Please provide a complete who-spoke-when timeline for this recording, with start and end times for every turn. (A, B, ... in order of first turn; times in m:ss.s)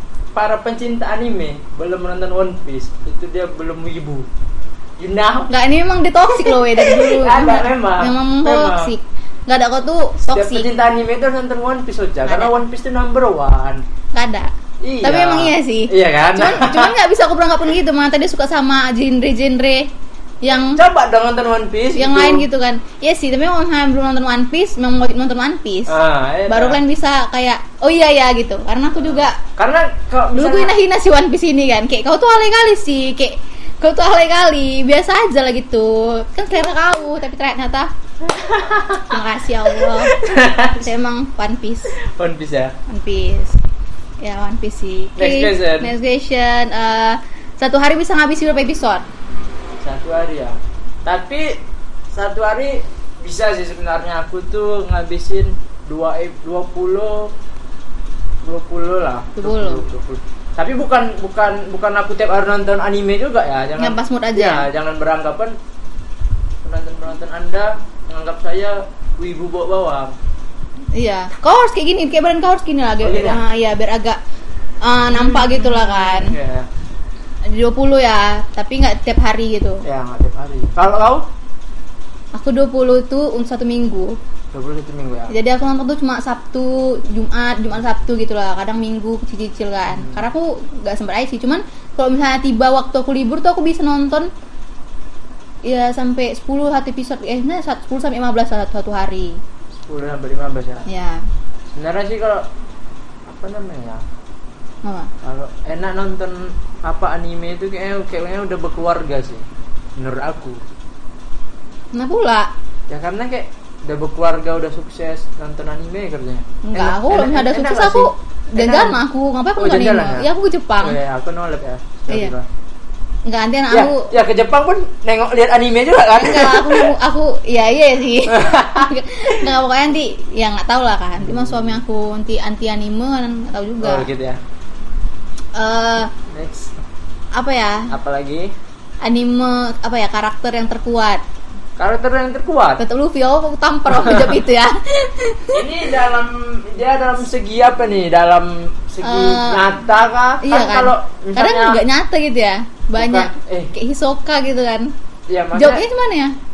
0:00.3-0:04.3 A
0:05.0-0:05.5 A
0:05.5-0:10.7 B
0:06.3-0:08.9 A
0:10.3-0:13.8 A
0:12.2-0:12.6 B
0:14.1-0:14.5 B
0:14.8-0:16.9 A
0:15.0-0:19.9 B
0:20.4-0:20.8 B
0:20.6-0:22.4 A
0:22.0-0:26.0 B
0:25.9-0:26.8 A
0:26.5-0:29.4 B
0:29.0-0:30.7 A
0:30.3-0:37.9 B
0:38.2-0:39.2 A
0:39.0-0:42.0 B
0:39.8-0:40.9 A
0:42.1-0:42.7 A
0:42.9-0:43.6 B
0:44.2-0:49.0 B
0:45.2-0:45.9 A
0:49.8-0:51.6 A
0:52.1-0:57.3 A
0:58.4-1:05.6 A
0:59.4-0:59.8 B
1:03.8-1:04.6 B
1:06.6-1:10.1 A
1:10.9-1:14.2 B
1:13.0-1:13.4 A
1:14.8-1:16.3 B
1:15.1-1:16.7 A
1:17.4-1:19.8 B
1:19.8-1:21.2 A
1:22.3-1:24.2 B
1:24.5-1:25.3 A
1:25.3-1:34.3 B
1:29.9-1:30.3 A
1:35.6-1:39.4 B
1:39.8-1:40.9 A
1:40.9-1:41.2 B
1:41.7-1:42.4 A
1:43.2-1:44.0 A
1:44.8-1:45.1 B
1:45.2-1:49.4 A
1:50.0-1:50.6 A
1:51.9-1:52.5 B
1:52.9-1:59.0 A
1:56.6-2:01.0 B
1:59.6-2:00.3 A
2:00.8-2:02.5 A
2:03.2-2:04.1 B
2:03.7-2:06.9 A
2:06.2-2:14.1 B
2:08.3-2:09.5 A
2:11.2-2:11.8 A
2:13.8-2:14.4 A
2:15.6-2:16.1 B
2:16.3-2:16.8 A
2:17.3-2:17.9 B
2:17.9-2:18.5 A
2:19.0-2:21.2 B
2:21.8-2:22.8 A
2:22.8-2:25.6 B
2:23.9-2:24.4 A
2:25.5-2:31.8 A
2:29.0-2:29.6 B
2:30.4-2:34.9 B
2:32.9-2:33.7 A
2:35.3-2:35.8 A
2:35.5-2:36.3 B